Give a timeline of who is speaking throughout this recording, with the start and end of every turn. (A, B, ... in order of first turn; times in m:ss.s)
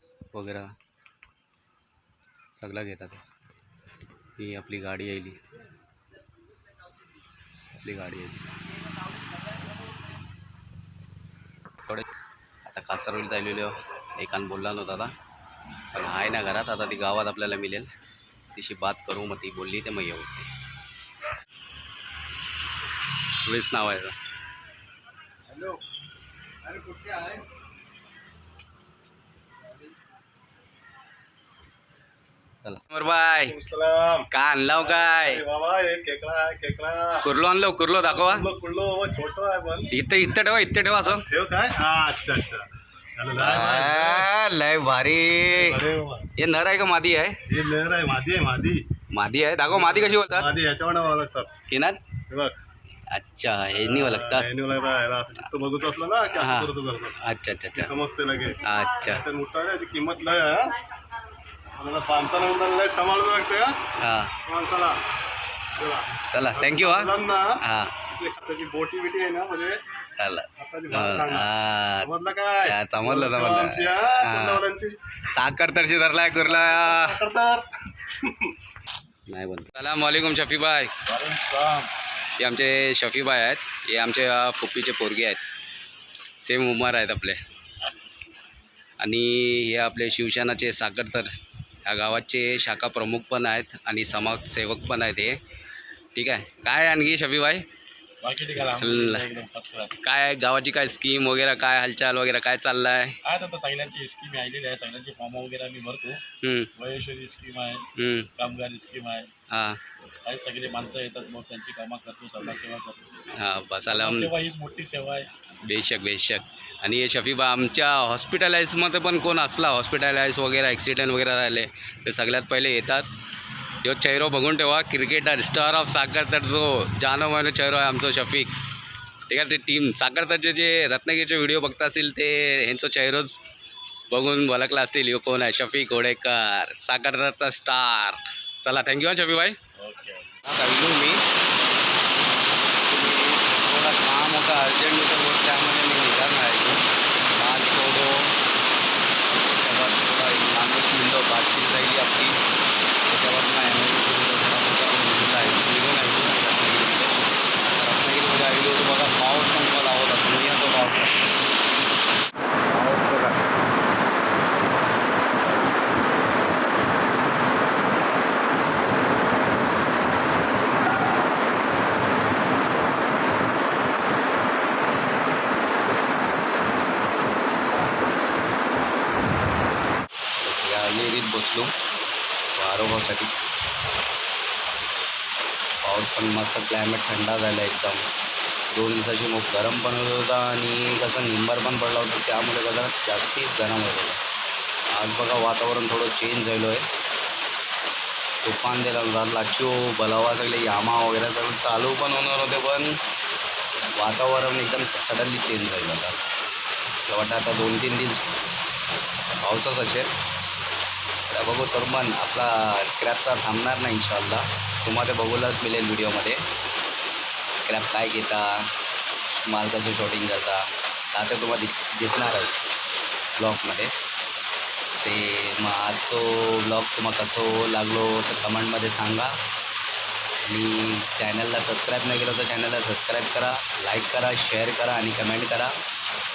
0:00.3-0:00.7 A
0:02.6-0:03.2 A
0:04.4-0:05.4 A
0:07.8-0:08.5 A
0:12.6-0:15.1 A
0:15.9-0:17.9 A
0:18.5-0:20.5 A
0:23.4-0:24.2 A
0:25.5-0:25.8 B
0:26.7-0:27.4 B
0:32.6-0:33.6 A
0:33.5-0:37.2 B
0:34.3-0:35.4 A
0:37.2-0:38.5 A
0:38.1-0:39.9 B
0:39.9-0:41.3 A
0:41.2-0:44.3 B
0:43.4-0:45.8 A
0:45.5-0:46.3 B
0:46.4-0:47.4 A
0:47.5-0:48.8 B
0:49.1-0:50.5 A
0:49.7-0:51.5 B
0:51.7-0:52.0 A
0:52.3-0:52.6 B
0:53.1-0:54.5 A
0:53.8-0:57.2 B
0:56.3-0:57.9 A
0:57.7-1:00.8 B
0:58.6-0:59.2 A
1:01.8-1:03.8 B
1:04.0-1:04.3 A
1:04.5-1:05.0 B
1:05.8-1:07.6 B
1:06.3-1:07.9 A
1:08.2-1:09.8 B
1:10.2-1:14.6 A
1:10.6-1:11.5 B
1:12.0-1:15.0 B
1:15.3-1:17.2 A
1:16.4-1:18.5 B
1:19.3-1:20.9 A
1:21.1-1:21.9 C
1:22.4-1:25.4 A
1:26.4-1:27.4 A
1:29.0-1:31.3 A
1:31.9-1:35.4 A
1:36.2-1:37.6 A
1:38.2-1:40.0 C
1:38.6-1:39.3 A
1:40.0-1:43.2 A
1:43.2-1:46.2 C
1:46.4-1:46.7 A
1:46.8-1:47.8 C
1:48.0-1:48.3 A
1:48.4-1:49.3 C
1:49.5-1:49.8 A
1:50.3-1:53.1 C
1:53.3-1:54.3 A
1:53.9-1:55.3 C
1:55.6-2:03.1 A
2:03.8-2:08.5 A
2:09.3-2:13.3 A
2:14.1-2:19.6 A
2:19.8-2:20.4 C
2:20.4-2:21.2 A
2:22.9-2:26.8 A
2:27.4-2:28.3 A
2:29.3-2:32.4 A
2:33.1-2:37.1 A
2:37.6-2:41.2 A
2:42.7-2:43.4 A
3:00.4-3:01.7 A
3:02.5-3:03.4 A
3:05.8-3:08.0 A
3:08.7-3:14.2 A
3:14.9-3:16.9 A
3:18.4-3:23.0 A
3:24.0-3:26.2 A
3:27.1-3:28.2 A
3:29.4-3:30.1 A
3:31.3-3:36.4 A
3:37.7-3:38.7 A
3:39.5-3:42.7 A
3:43.4-3:43.9 A
3:45.0-3:49.4 A
3:50.5-3:55.8 A